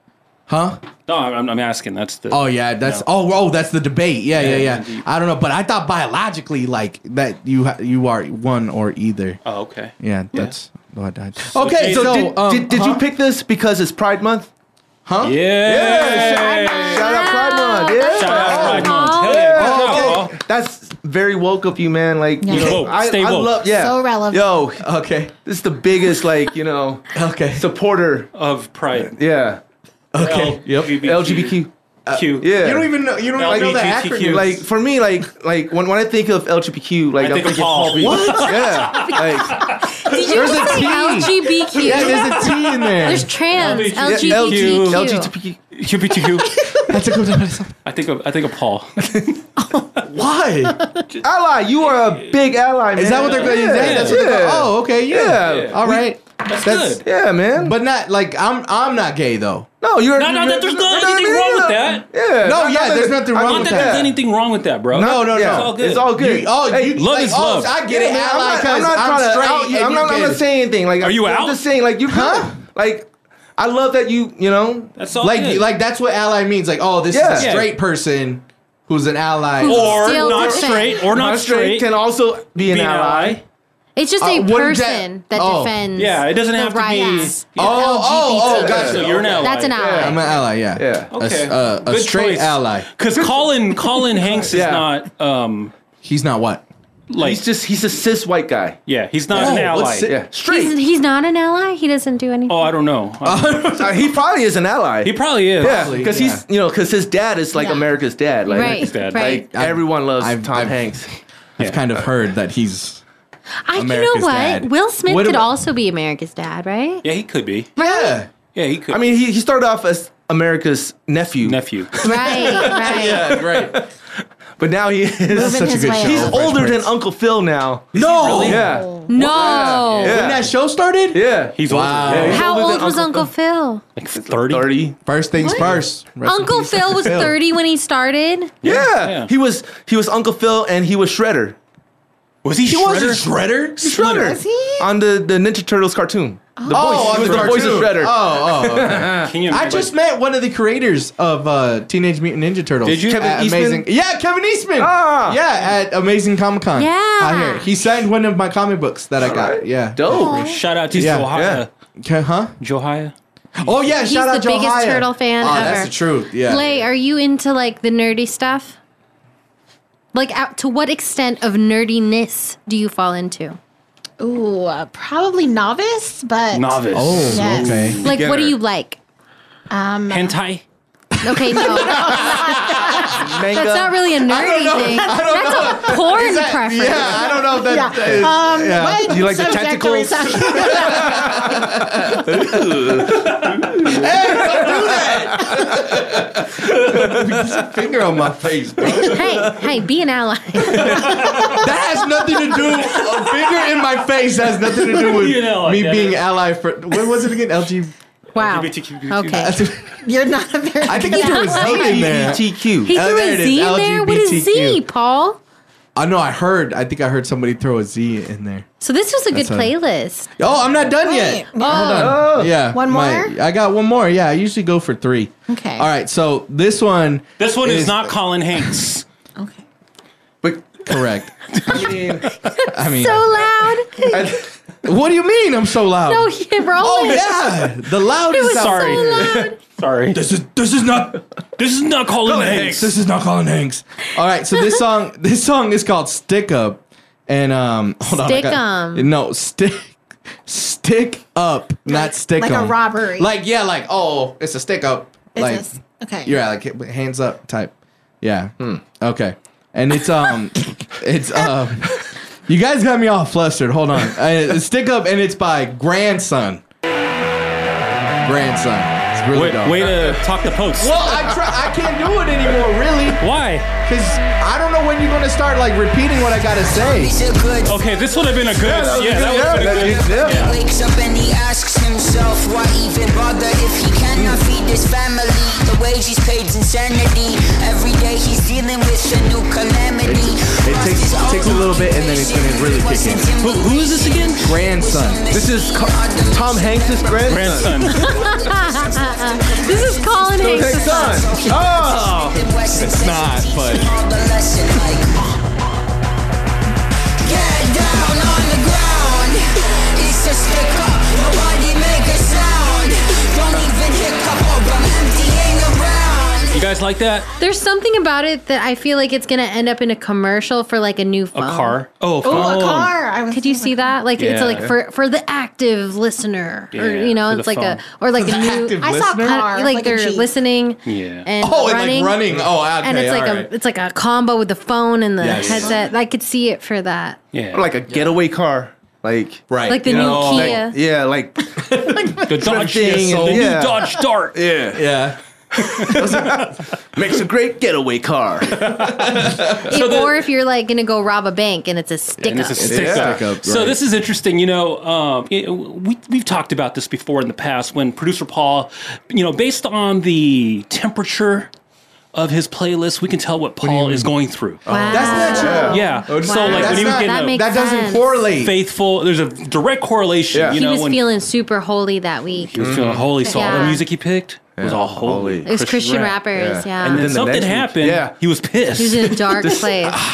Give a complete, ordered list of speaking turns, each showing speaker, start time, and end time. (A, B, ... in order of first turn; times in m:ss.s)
0:00.5-0:00.8 A
0:01.1-0:03.0 B
0:02.3-0:09.4 A
0:04.3-0:05.1 B
0:09.4-0:10.5 B
0:10.0-0:13.0 A
0:11.5-0:12.3 B
0:11.8-0:14.5 C
0:15.1-0:15.4 A
0:15.2-0:17.4 B
0:15.6-0:24.9 C
0:16.2-0:19.4 D
0:18.1-0:20.4 B
0:19.6-0:20.3 A
0:22.4-0:22.8 E
0:22.5-0:23.7 B
0:23.7-0:24.6 E
0:24.8-0:25.3 A
0:25.4-0:28.3 C
0:27.1-0:27.7 A
0:28.3-0:29.2 B
0:29.1-0:29.6 C
0:30.1-0:31.0 A
0:30.2-0:32.5 B
0:30.9-0:31.7 C
0:32.1-0:34.6 A
0:32.4-0:32.9 C
0:33.4-0:34.6 B
0:33.4-0:41.2 C
0:37.2-0:40.2 B
0:37.9-0:38.8 A
0:39.0-0:42.5 D
0:40.2-0:43.3 A
0:41.7-0:45.1 B
0:43.0-0:45.3 D
0:43.7-0:45.7 C
0:45.8-0:46.6 B
0:46.5-0:47.0 E
0:46.8-0:47.7 A
0:47.8-0:49.4 B
0:50.0-0:50.8 A
0:51.2-0:56.1 C
0:51.8-0:52.4 B
0:53.0-0:57.0 A
0:53.2-0:54.2 B
0:55.4-0:55.8 B
0:56.5-0:57.0 B
0:57.0-0:57.8 C
0:57.6-0:59.7 A
0:59.8-1:04.2 C
1:00.2-1:02.1 B
1:02.4-1:04.1 A
1:03.4-1:06.2 B
1:04.9-1:07.0 C
1:04.9-1:10.4 A
1:07.0-1:07.8 B
1:07.8-1:14.9 C
1:11.0-1:11.6 B
1:12.1-1:12.6 A
1:15.0-1:15.6 B
1:15.2-1:20.2 A
1:17.1-1:17.6 C
1:17.4-1:17.7 B
1:19.6-1:21.0 D
1:19.6-1:21.9 B
1:20.3-1:20.6 E
1:20.4-1:23.4 C
1:22.6-1:23.4 B
1:24.0-1:28.9 D
1:24.2-1:25.8 A
1:26.0-1:27.8 B
1:27.0-1:27.4 E
1:27.6-1:29.4 A
1:27.6-1:30.2 C
1:28.4-1:30.1 B
1:29.4-1:30.2 D
1:30.0-1:32.9 A
1:30.8-1:31.1 C
1:31.1-1:35.7 B
1:33.2-1:33.4 C
1:34.1-1:34.9 C
1:36.0-1:36.6 A
1:37.1-1:37.4 B
1:37.2-1:38.8 C
1:38.9-1:40.1 B
1:39.3-1:40.2 A
1:39.3-1:40.8 C
1:40.4-1:42.7 D
1:42.5-1:43.8 B
1:43.2-1:44.2 A
1:43.8-1:51.1 C
1:45.0-1:46.0 B
1:45.6-1:46.4 A
1:47.6-1:47.8 E
1:48.5-1:49.5 D
1:48.6-1:49.4 B
1:49.5-1:51.0 A
1:51.6-1:53.0 A
1:51.6-1:51.9 B
1:53.7-1:57.0 D
1:53.7-1:55.5 A
1:57.0-1:57.7 B
1:57.8-1:58.3 A
1:58.5-1:59.1 B
1:58.9-2:03.9 C
2:01.4-2:02.3 B
2:02.0-2:03.4 D
2:02.5-2:03.8 A
2:04.6-2:10.5 C
2:05.3-2:06.5 E
2:05.3-2:07.0 A
2:07.9-2:08.8 A
2:08.0-2:08.7 B
2:08.6-2:09.1 E
2:09.1-2:10.2 D
2:09.4-2:10.2 B
2:10.0-2:12.5 A
2:11.1-2:13.3 C
2:11.6-2:12.4 B
2:12.3-2:13.8 D
2:14.0-2:14.7 B
2:14.2-2:15.8 C
2:15.1-2:17.4 A
2:16.2-2:18.5 D
2:18.6-2:19.3 B
2:18.6-2:21.6 C
2:22.4-2:23.3 B
2:22.6-2:24.2 A
2:23.8-2:29.3 C
2:23.9-2:24.9 E
2:26.6-2:27.0 E
2:26.7-2:40.4 A
2:26.8-2:27.8 B
2:29.2-2:29.9 B
2:32.8-2:33.3 B
2:33.1-2:33.9 C
2:34.8-2:35.4 C
2:36.8-2:37.7 D
2:39.2-2:41.6 C
2:40.1-2:40.6 E
2:40.4-2:41.7 B
2:40.9-2:41.4 A
2:42.0-2:42.6 A
2:42.6-2:43.1 B
2:43.6-2:46.7 A
2:43.9-2:48.8 D
2:50.1-2:53.6 D
2:54.2-2:57.8 E
2:56.5-2:58.2 B
2:56.9-2:58.0 A
2:58.0-2:59.0 D
2:58.0-2:58.6 C
2:59.7-3:00.4 E
3:00.1-3:00.6 B
3:01.2-3:07.4 D
3:01.3-3:03.2 A
3:01.6-3:03.2 E
3:03.1-3:04.1 C
3:04.2-3:09.3 A
3:07.5-3:11.2 E
3:08.0-3:08.3 C
3:09.0-3:15.8 C
3:10.6-3:13.0 A
3:13.8-3:19.5 A
3:16.9-3:17.5 C
3:18.8-3:19.7 C
3:19.0-3:21.1 D
3:20.8-3:27.9 A
3:20.9-3:21.6 B
3:22.7-3:23.7 B
3:24.6-3:26.2 B
3:28.4-3:29.5 B
3:28.4-3:29.6 D
3:29.3-3:30.0 A
3:30.0-3:32.1 E
3:30.8-3:34.8 A
3:31.2-3:32.0 D
3:31.5-3:32.9 C
3:32.8-3:35.4 D
3:36.0-3:38.7 A
3:38.8-3:40.3 D
3:39.3-3:39.7 A
3:40.4-3:48.1 A
3:41.0-3:43.3 E
3:41.6-3:42.1 D
3:41.8-3:42.6 C
3:45.5-3:45.9 E
3:47.4-3:49.0 B
3:50.4-3:50.7 C
3:50.8-3:51.8 A
3:51.5-3:52.4 B
3:51.7-3:52.3 C
3:52.6-3:54.4 D
3:52.7-3:53.5 A
3:54.1-3:54.5 C
3:54.8-3:59.4 A
3:56.1-3:57.8 D
3:58.3-3:59.6 D
3:58.4-4:00.2 B
3:59.1-3:59.5 C
4:00.1-4:01.2 A
4:01.6-4:02.9 B
4:02.2-4:02.9 C
4:02.6-4:15.7 A
4:08.1-4:09.1 D
4:11.9-4:13.3 E
4:15.4-4:16.4 E
4:16.2-4:26.6 A
4:28.2-4:30.0 A
4:29.3-4:31.3 B
4:29.8-4:30.2 C
4:30.8-4:33.3 A
4:30.8-4:31.7 C
4:33.2-4:33.7 B
4:33.8-4:37.2 A
4:36.5-4:38.2 F
4:37.7-4:40.6 B
4:38.5-4:40.6 C
4:40.2-5:05.3 F
4:50.0-4:53.3 A
4:53.4-4:54.6 B
4:54.4-4:55.2 A
4:55.3-4:58.1 C
4:57.3-4:58.1 B
4:58.0-5:01.4 D
5:00.3-5:02.4 C
5:02.7-5:03.9 A
5:07.2-5:16.7 F
5:16.5-5:17.3 B
5:17.4-5:21.8 D
5:21.4-5:22.9 B
5:22.2-5:24.0 E
5:23.3-5:32.3 D
5:24.2-5:24.7 B
5:26.7-5:27.8 B
5:28.2-5:29.5 A
5:28.8-5:30.3 E
5:30.8-5:31.3 B
5:31.4-5:33.5 A
5:32.8-5:37.2 D
5:35.2-5:35.8 A
5:35.4-5:35.7 B
5:37.3-5:37.7 B
5:37.5-5:45.0 C
5:39.5-5:40.6 A
5:39.7-5:40.8 D
5:39.9-5:40.5 B
5:41.6-5:43.6 A
5:42.2-5:44.4 B
5:44.7-5:45.2 A
5:45.5-5:49.7 C
5:45.8-5:46.5 A
5:49.0-5:49.5 A
5:49.7-5:50.2 B
5:49.7-5:52.7 D
5:52.2-5:53.8 A
5:52.2-6:01.5 B
5:52.7-5:53.2 C
6:02.1-6:07.4 B
6:03.6-6:04.1 A
6:04.7-6:05.8 C
6:04.7-6:08.3 D
6:04.8-6:08.6 A
6:08.4-6:11.0 B
6:10.3-6:10.6 C
6:10.5-6:12.6 D
6:12.5-6:16.2 B
6:12.6-6:13.6 C
6:13.2-6:13.8 D
6:14.6-6:15.5 C
6:15.5-6:17.2 D
6:16.3-6:18.2 C
6:16.8-6:19.2 B
6:18.7-6:20.0 C
6:18.8-6:20.0 D